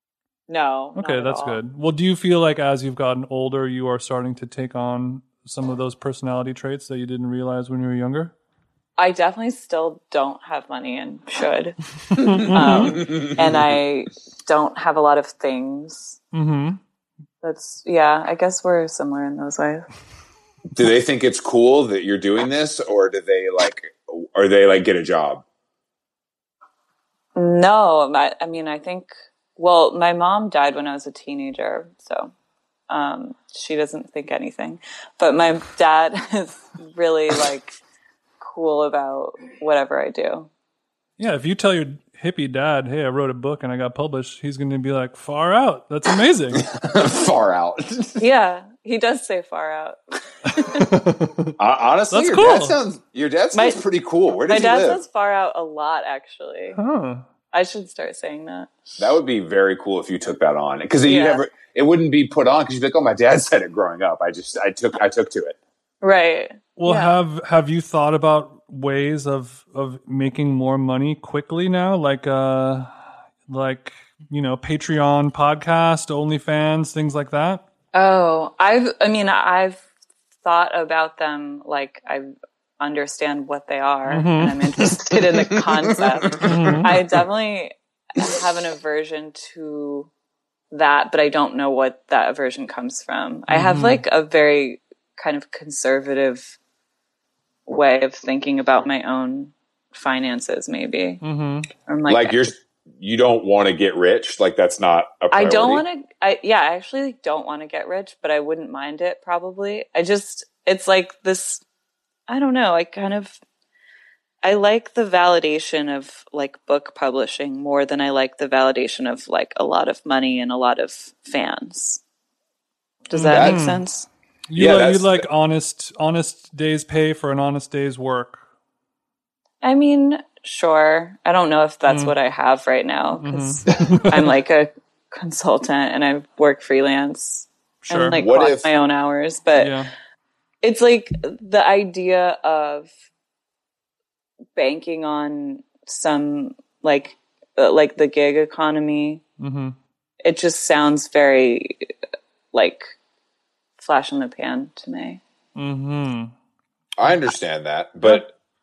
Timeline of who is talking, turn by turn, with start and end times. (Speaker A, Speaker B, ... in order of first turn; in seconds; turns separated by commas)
Speaker A: 0.5-1.6, Speaker B: 0.9-8.3, Speaker A: 9.0-16.2, Speaker B: 12.1-13.1, Speaker C: 12.8-13.3, Speaker B: 16.3-16.8, Speaker A: 17.4-19.9, Speaker C: 20.7-25.4, Speaker A: 27.3-32.3, Speaker A: 32.9-37.8, Speaker A: 38.4-40.5, Speaker B: 41.2-46.6, Speaker C: 46.6-48.2, Speaker A: 48.2-50.9, Speaker B: 50.6-51.5, Speaker C: 51.6-55.0, Speaker B: 52.1-52.8, Speaker A: 53.5-53.8, Speaker A: 54.3-56.8, Speaker B: 56.7-57.2, Speaker A: 57.5-58.7, Speaker C: 59.0-65.6, Speaker A: 61.0-61.4, Speaker A: 66.0-67.2, Speaker B: 66.8-72.9, Speaker B: 73.5-77.6, Speaker A: 77.9-79.8, Speaker A: 80.4-90.1, Speaker B: 84.1-84.9, Speaker B: 86.3-87.0, Speaker A: 90.7-96.6, Speaker B: 93.5-94.0, Speaker A: 97.7-101.2, Speaker B: 101.2-101.7, Speaker A: 101.8-102.4, Speaker C: 102.1-105.8, Speaker A: 105.3-111.6, Speaker A: 112.3-113.4, Speaker A: 114.4-122.0, Speaker A: 123.1-124.1, Speaker B: 123.1-123.8, Speaker C: 123.3-123.5, Speaker B: 124.5-128.4, Speaker C: 124.5-125.2, Speaker A: 129.6-139.8, Speaker B: 131.9-132.1, Speaker B: 133.2-134.3, Speaker B: 137.8-138.2, Speaker C: 138.2-138.7, Speaker B: 139.5-139.9, Speaker A: 140.6-142.9, Speaker A: 144.6-149.2, Speaker B: 149.4-149.8, Speaker A: 150.2-151.9, Speaker A: 152.5-152.9, Speaker A: 153.8-155.2, Speaker B: 155.6-156.3, Speaker C: 157.0-158.3